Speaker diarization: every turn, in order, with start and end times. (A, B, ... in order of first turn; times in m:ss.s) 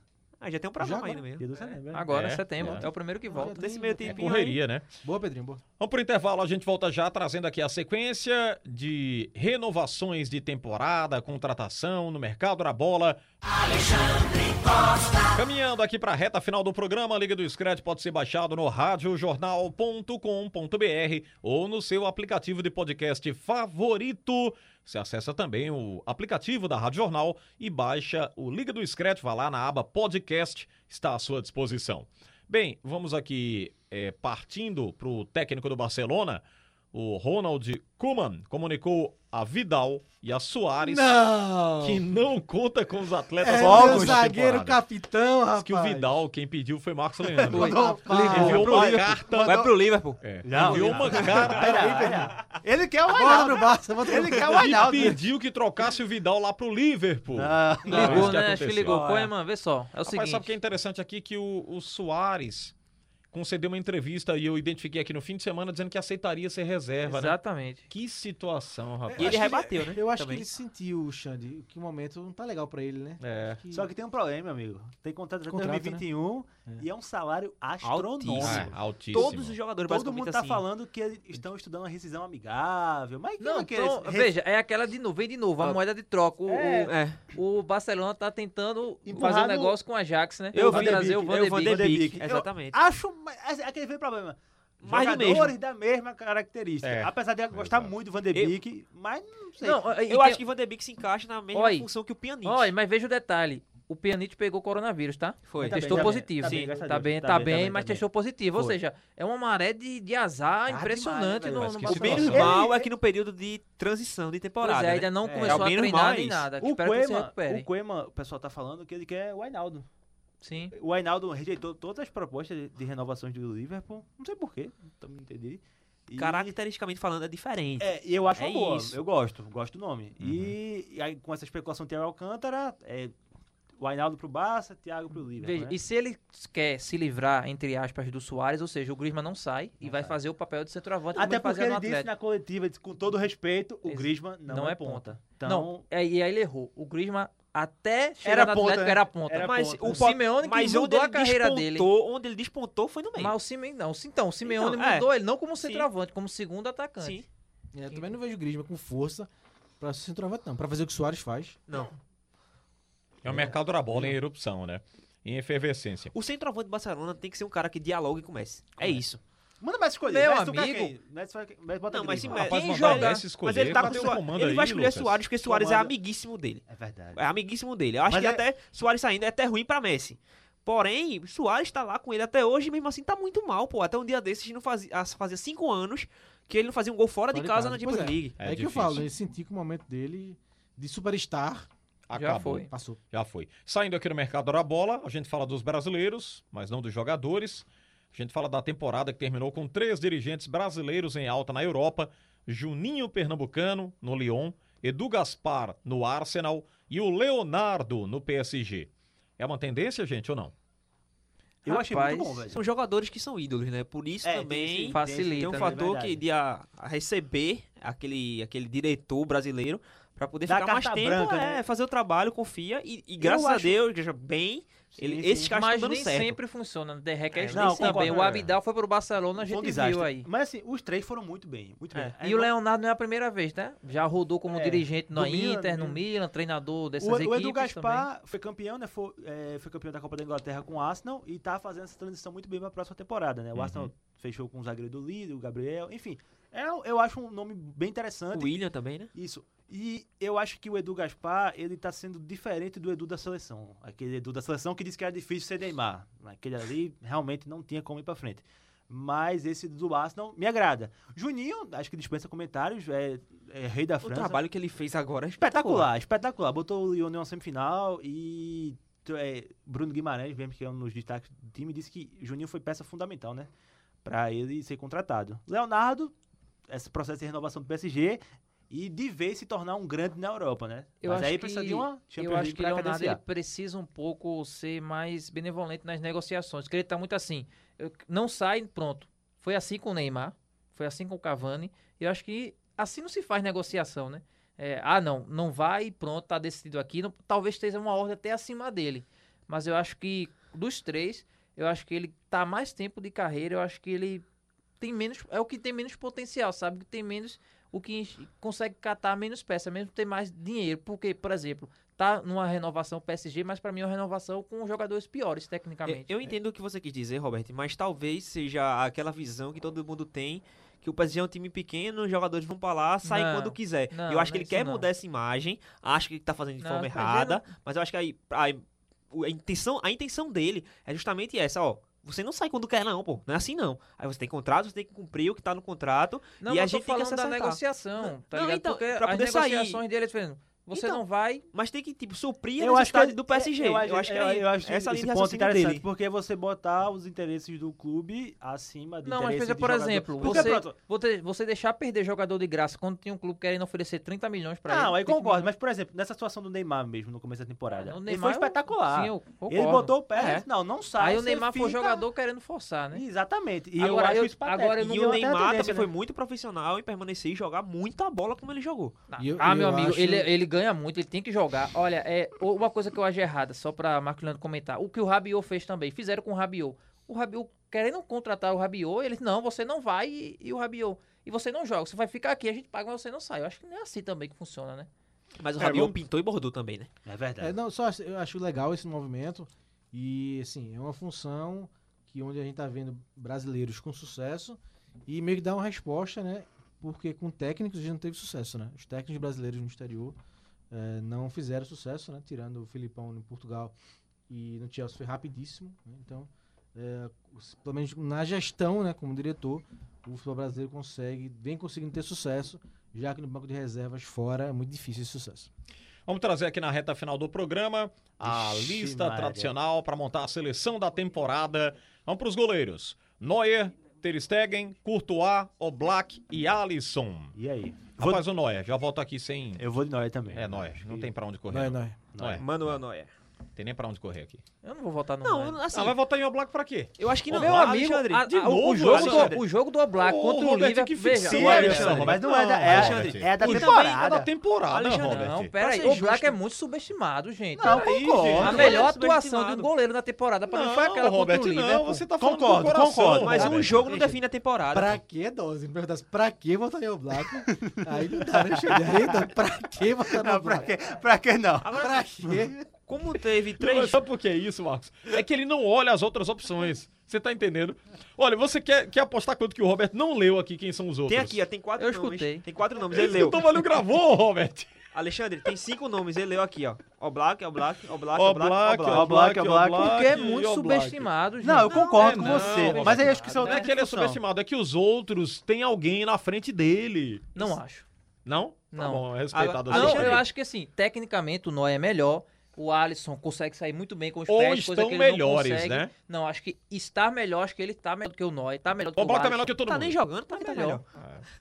0:00.4-0:01.5 A
0:00.8-0:01.2 B
0:01.4-0:02.1 C
0:01.9-0:03.6 D
0:02.1-0:02.8 E
0:03.3-0:04.3 B
0:03.4-0:04.6 A
0:04.0-0:04.9 E
0:05.0-0:05.6 B
0:05.8-0:13.2 E
0:15.2-0:41.2 E
0:40.8-0:42.1 B
0:41.8-0:44.8 E
0:43.4-0:46.1 B
0:43.5-0:44.3 C
0:45.6-0:49.7 E
0:47.3-0:49.7 C
0:47.5-0:48.7 D
0:47.5-0:48.9 B
0:48.6-0:51.6 A
0:50.2-0:52.2 E
0:50.4-0:55.2 C
0:51.5-0:52.4 B
0:53.0-0:55.2 B
0:54.4-0:59.0 E
0:57.3-0:59.3 C
0:57.8-1:00.5 D
1:00.0-1:02.7 E
1:03.3-1:09.5 E
1:07.0-1:07.9 D
1:09.0-1:13.9 B
1:09.2-1:10.4 A
1:13.2-1:13.6 E
1:13.7-1:24.3 C
1:15.5-1:16.0 B
1:17.8-1:20.6 A
1:18.4-1:19.6 E
1:23.4-1:31.9 D
1:26.5-1:26.9 C
1:26.8-1:27.2 A
1:29.0-1:29.8 C
1:30.5-1:32.8 A
1:30.6-1:39.8 C
1:34.8-1:35.6 A
1:36.8-1:37.9 E
1:39.6-1:40.4 D
1:40.1-1:42.7 A
1:41.5-1:41.9 D
1:42.4-1:52.6 D
1:45.5-1:46.7 A
1:45.6-1:48.8 C
1:50.7-1:52.9 C
1:51.6-1:52.6 E
1:51.9-1:56.5 A
1:54.6-1:57.7 D
1:55.2-1:55.7 C
1:56.6-1:59.9 C
2:00.4-2:00.7 D
2:00.7-2:06.5 C
2:06.2-2:09.0 A
2:07.8-2:13.1 C
2:10.2-2:10.5 E
2:13.8-2:15.8 C
2:15.4-2:22.1 D
2:19.8-2:20.2 C
2:21.1-2:25.8 C
2:23.8-2:31.9 D
2:28.2-2:30.2 C
2:29.4-2:33.3 A
2:33.2-2:37.2 D
2:34.4-2:35.1 A
2:35.6-2:35.9 A
2:37.0-2:37.2 A
2:37.7-2:41.6 B
2:43.2-2:46.1 E
2:43.3-2:44.1 B
2:46.1-2:49.2 A
2:49.6-2:52.4 C
2:50.1-2:50.9 D
2:51.9-3:08.4 A
2:52.3-2:55.2 E
2:52.3-2:53.2 D
2:55.4-2:55.9 C
2:56.7-2:57.2 C
2:58.1-2:58.4 C
3:07.3-3:11.7 B
3:08.4-3:09.0 E
3:12.1-3:30.5 E
3:12.1-3:12.7 D
3:12.7-3:13.0 B
3:31.6-3:32.6 C
3:31.6-3:32.4 D
3:32.5-3:46.4 A
3:34.2-3:36.2 C
3:34.9-3:35.8 D
3:40.5-3:41.6 C
3:43.2-3:43.8 C
3:44.9-3:45.5 C
3:45.5-3:50.3 D
3:47.4-3:48.2 A
3:47.5-3:48.5 C
3:49.4-3:52.5 C
3:52.2-3:58.1 D
3:54.5-3:56.0 C
3:57.0-4:08.5 C
4:03.5-4:03.9 E
4:08.3-4:09.1 A
4:09.1-4:24.4 C
4:24.0-4:25.9 A
4:25.4-4:33.5 C
4:34.0-4:36.1 C
4:36.7-4:43.2 C
4:41.0-5:04.2 D
5:04.8-5:16.3 D
5:15.8-5:39.8 A
5:23.0-5:24.8 D
5:26.6-5:27.4 D
5:36.4-5:41.4 D
5:40.7-5:41.0 A
5:41.5-5:45.8 A
5:42.6-5:50.8 C
5:49.0-5:55.5 D
5:54.7-6:02.0 C
5:57.8-6:03.0 D
6:02.9-6:05.9 C
6:03.8-6:05.2 D
6:04.8-6:09.0 A
6:09.1-6:24.9 D
6:09.2-6:10.3 B
6:25.4-6:26.9 A
6:25.6-6:25.9 E
6:27.0-6:27.5 C
6:27.4-6:40.2 B
6:40.7-6:43.7 B
6:44.3-6:55.5 B
6:56.0-7:07.4 E
6:58.2-6:59.5 C
7:07.4-7:08.2 C
7:07.9-7:09.6 E
7:09.6-7:11.1 C
7:10.3-7:12.8 E
7:11.5-7:12.0 B
7:12.1-7:12.4 C
7:12.4-7:13.1 A
7:13.6-7:14.4 E
7:14.6-7:15.6 D
7:15.2-7:16.0 A
7:15.7-7:17.7 E
7:17.0-7:19.4 A
7:17.3-7:21.7 D
7:18.3-7:25.5 E
7:21.2-7:24.3 C
7:21.3-7:24.0 A
7:24.7-7:26.4 A
7:25.0-7:32.0 D
7:27.6-7:28.9 C
7:27.6-7:29.7 A
7:28.3-7:28.7 E
7:30.5-7:34.0 E
7:32.2-7:34.0 C
7:33.1-7:35.0 A
7:34.7-7:40.7 B
7:37.4-7:39.3 C
7:40.0-7:42.5 C
7:41.6-7:42.1 A
7:41.7-7:42.5 B
7:42.9-7:44.0 A
7:43.6-7:51.4 E
7:51.1-7:53.5 A
7:51.8-7:52.4 D
7:52.9-7:54.7 E
7:54.9-7:59.2 A
7:58.1-8:01.1 E
7:58.9-8:00.2 C
7:59.8-8:03.7 D
8:01.4-8:04.2 C
8:01.7-8:02.0 A
8:01.9-8:07.6 E
8:07.3-8:07.8 D
8:08.2-8:10.2 E
8:08.7-8:09.0 D
8:09.3-8:10.2 A
8:09.7-8:19.5 D
8:14.3-8:15.9 E
8:18.9-8:20.0 E
8:19.6-8:20.8 A
8:20.3-8:20.8 D
8:21.0-8:21.2 E